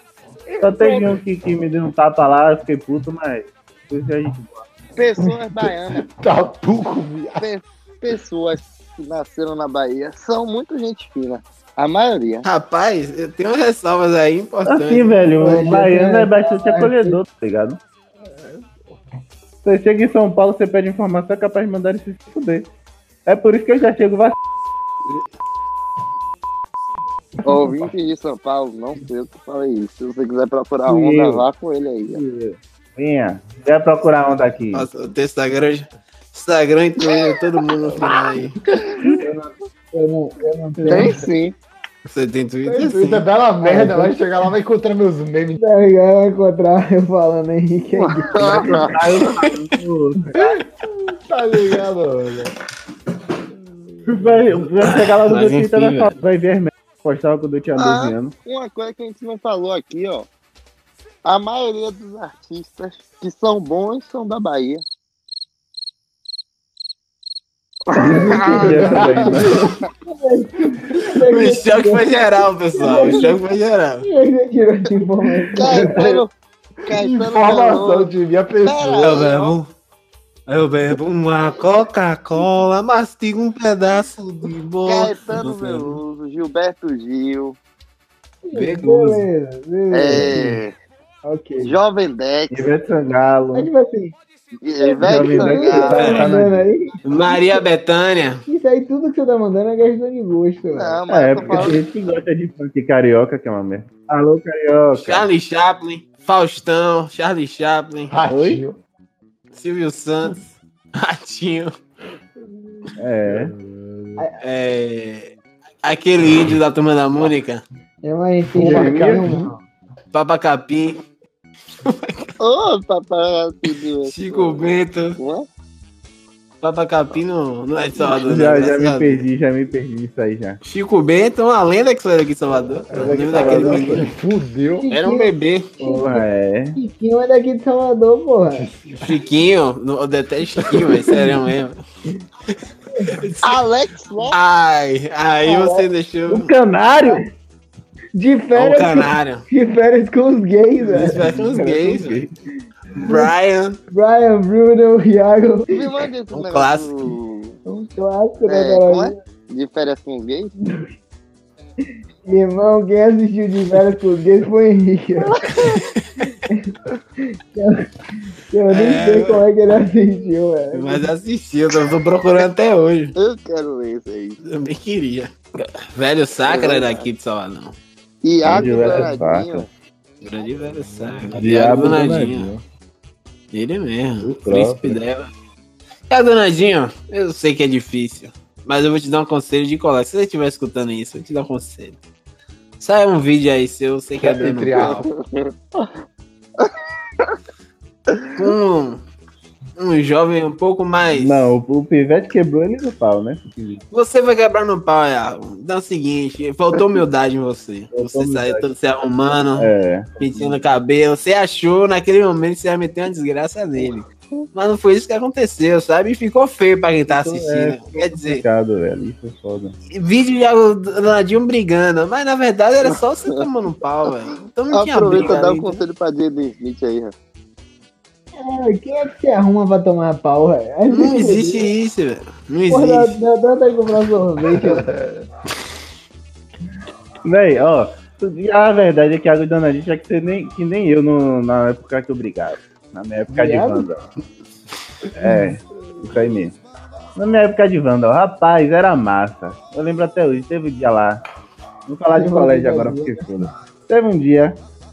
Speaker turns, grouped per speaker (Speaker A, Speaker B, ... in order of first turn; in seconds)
Speaker A: 0.6-4.7, 14.6-17.8, 19.6-22.7, 23.2-24.4, 30.8-31.4, 32.1-34.9, 40.8-41.2, 48.6-50.4, 54.1-58.4, 68.1-69.5, 90.1-90.4, 92.5-93.7, 95.0-96.7, 101.1-105.3, 108.3-108.6, 113.0-113.5, 118.6-119.4, 128.0-130.6, 132.9-134.1, 135.9-136.8, 146.3-147.3, 151.5-152.3, 178.4-179.7, 181.3-182.6, 184.2-185.0, 201.1-203.8, 207.9-208.7, 209.5-210.6, 217.1-219.8, 237.2-244.1, 245.2-246.6, 247.1-251.2, 251.8-254.6
Speaker B: 0.7-1.1, 4.9-6.0, 7.4-12.4, 27.4-32.2, 37.0-37.4, 40.9-41.5, 48.0-49.4, 57.8-60.3, 61.2-64.8, 67.9-69.2, 72.8-73.1, 75.5-76.3, 76.8-78.1, 78.6-79.5, 84.8-87.6, 89.9-90.7, 91.6-92.7, 94.6-96.2, 100.7-101.8, 122.4-125.5, 143.4-144.3, 155.7-157.6, 158.5-160.5, 173.2-174.4, 176.5-177.1, 178.2-179.7, 194.8-195.9, 196.6-197.3, 213.8-214.5, 224.7-227.1
Speaker C: 5.9-7.4, 42.7-45.6, 50.4-50.6, 51.2-52.5, 53.5-54.5, 68.8-69.5, 76.9-79.2, 108.1-108.8, 112.8-114.2, 118.5-119.5, 132.9-134.9, 138.6-139.2, 140.6-141.4, 194.2-195.0, 234.6-235.2
Speaker D: 12.4-15.2, 34.7-38.5, 42.0-43.2, 54.8-56.1, 71.3-74.0, 78.9-79.7, 80.5-86.0, 88.5-89.2, 95.9-96.3, 97.0-98.4, 105.0-108.1, 109.5-111.7, 114.4-115.3, 115.8-117.6, 120.1-121.0, 121.8-122.3, 124.0-125.2, 126.6-129.2, 130.6-134.1, 134.9-135.8, 139.0-141.8, 143.1-143.6, 144.3-146.5, 148.5-149.4, 150.8-152.2, 153.0-153.8, 156.3-157.1, 165.5-166.3, 168.7-169.4, 170.7-173.1, 174.4-177.8, 178.6-178.9, 180.2-182.5, 183.5-185.3, 186.1-192.0, 192.8-195.1, 198.3-199.0, 199.8-201.5, 203.9-218.4, 219.9-225.8, 230.9-233.1
Speaker E: 15.4-17.2, 39.2-41.2, 43.6-44.1, 45.6-48.8, 68.1-72.1, 72.8-73.4, 74.0-76.1, 88.4-90.5, 91.2-91.7, 93.5-94.1, 94.8-97.6, 98.5-101.7, 118.0-119.5, 134.8-136.2, 136.8-138.7, 145.4-145.8, 148.2-151.3, 153.9-155.7, 157.7-159.1, 162.2-165.4, 167.2-171.1, 228.4-231.7, 232.7-234.9, 243.3-243.9, 252.1-253.5